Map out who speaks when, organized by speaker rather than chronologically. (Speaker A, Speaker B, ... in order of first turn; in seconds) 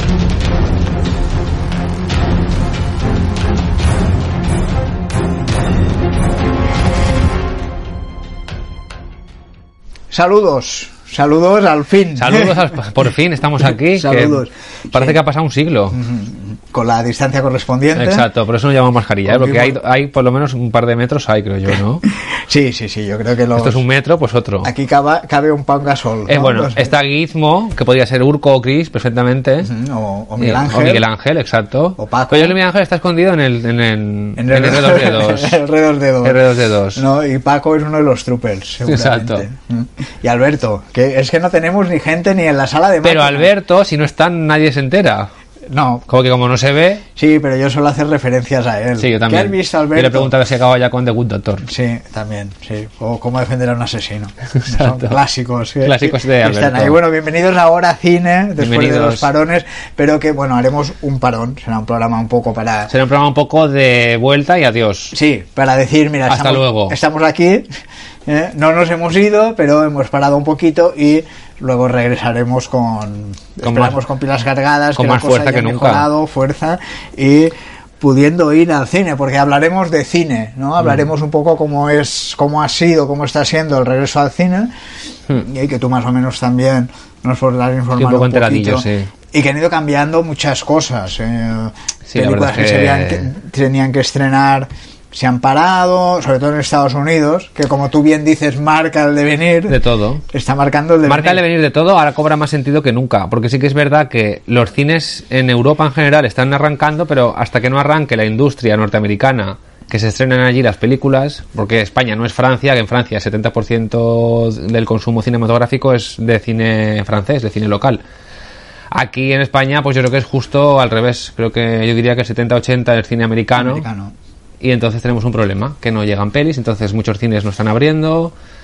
Speaker A: 10.1-12.7, 13.6-15.2, 15.9-18.3, 19.3-19.8, 22.1-23.8, 24.6-26.9, 29.6-31.1, 32.0-32.5, 34.4-36.4, 36.9-43.5, 45.7-46.1, 47.1-50.3, 51.6-62.9, 65.1-67.7, 68.2-84.7, 85.3-99.8, 100.3-101.4, 123.5-124.1
Speaker B: 12.2-16.0, 17.9-22.0, 23.5-24.7, 26.3-29.7, 30.4-35.6, 36.2-37.0, 38.8-39.4, 43.0-45.3, 46.1-47.0, 49.0-51.7, 54.5-55.2, 55.8-57.0, 58.6-59.3, 62.9-65.2, 66.3-67.0, 73.6-74.0, 75.0-76.1, 88.0-89.1, 92.1-93.3, 99.7-100.2, 101.0-118.0, 118.9-123.8, 124.6-128.3